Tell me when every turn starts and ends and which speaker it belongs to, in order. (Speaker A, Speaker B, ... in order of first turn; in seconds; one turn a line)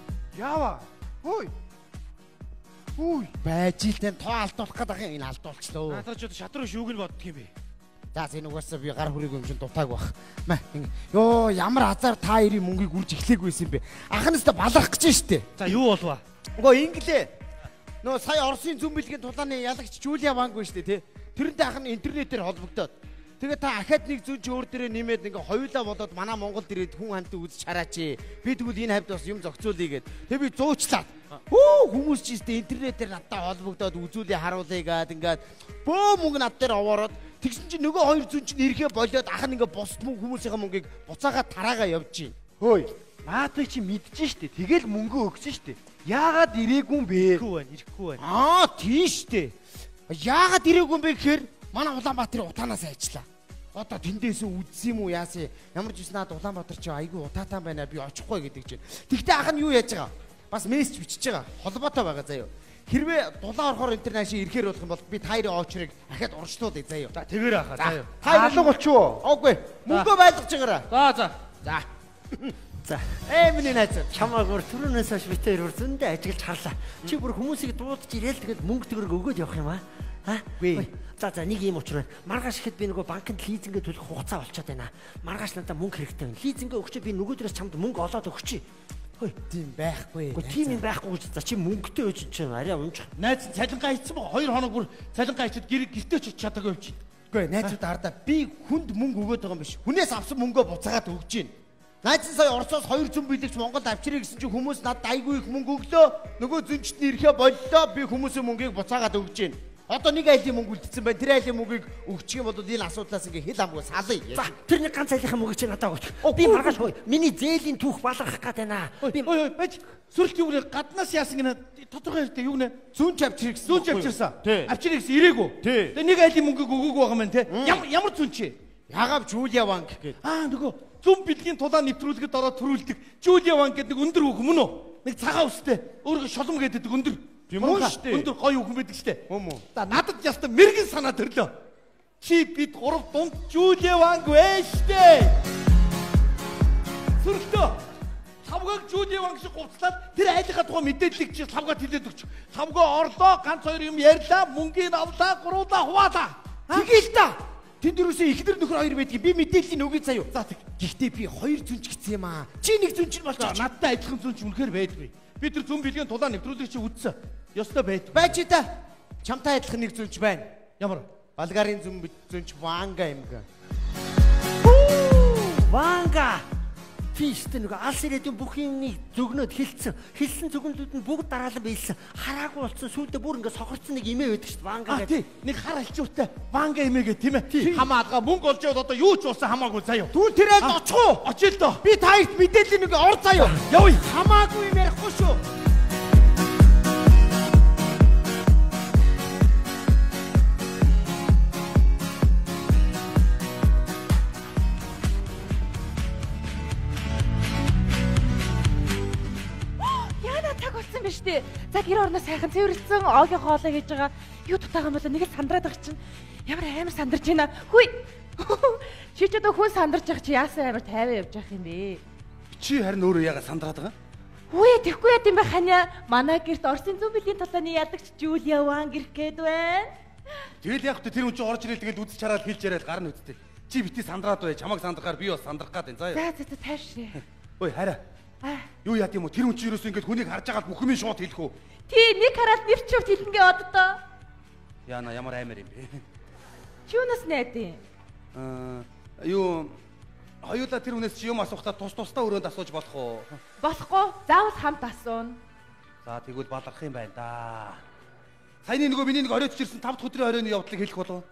Speaker A: 0.3-1.5
Speaker A: 3.0-3.3
Speaker B: 3.4-6.0
Speaker C: 5.9-7.5
Speaker B: 8.1-15.7
Speaker A: 15.6-15.9
Speaker C: 15.6-16.2
Speaker B: 16.6-17.3
Speaker B: 18.0-42.4
Speaker A: 42.6-47.4
Speaker C: 47.3-48.2
Speaker B: 48.2-49.6
Speaker B: 50.1-67.1
Speaker A: 67.1-68.7
Speaker B: 67.8-70.9
Speaker A: 70.9-71.3
Speaker B: 71.6-72.5
Speaker D: 72.8-73.2
Speaker B: 73.3-74.2
Speaker D: 74.1-88.6
Speaker B: 80.6-80.9
Speaker B: 89.2-90.8
Speaker D: 90.3-93.1
Speaker C: 93.2-97.0
Speaker B: 97.3-114.5
Speaker D: 114.3-119.3
Speaker B: 116.2-116.9
Speaker C: 119.0-122.8
Speaker B: 122.9-124.8
Speaker C: 123.7-128.5
Speaker B: 125.6-126.0
Speaker B: 127.5-127.8
Speaker B: 128.9-130.2
Speaker C: 130.2-139.2
Speaker B: 137.5-138.3
Speaker B: 139.3-139.6
Speaker C: 139.7-141.5
Speaker C: 142.2-145.4
Speaker C: 147.2-147.8
Speaker C: 148.4-156.9
Speaker B: 156.7-163.7
Speaker C: 160.3-160.7
Speaker C: 163.4-168.3
Speaker B: 168.1-170.6
Speaker C: 170.8-171.1
Speaker B: 171.3-173.4
Speaker D: 174.6-176.5
Speaker D: 177.1-185.2
Speaker C: 184.9-191.8
Speaker B: 187.5-187.9
Speaker B: 190.1-191.2
Speaker B: 191.8-195.4
Speaker C: 193.5-194.1
Speaker E: 209.8-222.0
Speaker A: 222.5-223.9
Speaker E: 224.5-229.9
Speaker A: 230.6-236.2
Speaker E: 236.1-237.2
Speaker A: 237.6-238.0
Speaker E: 238.4-238.7
Speaker A: 238.8-241.5
Speaker E: 241.9-244.0
Speaker A: 244.9-246.0
Speaker E: 246.9-247.8
Speaker A: 248.3-249.8
Speaker A: 250.4-253.4
Speaker E: 253.6-255.4
Speaker A: 256.1-257.8
Speaker A: 258.6-261.2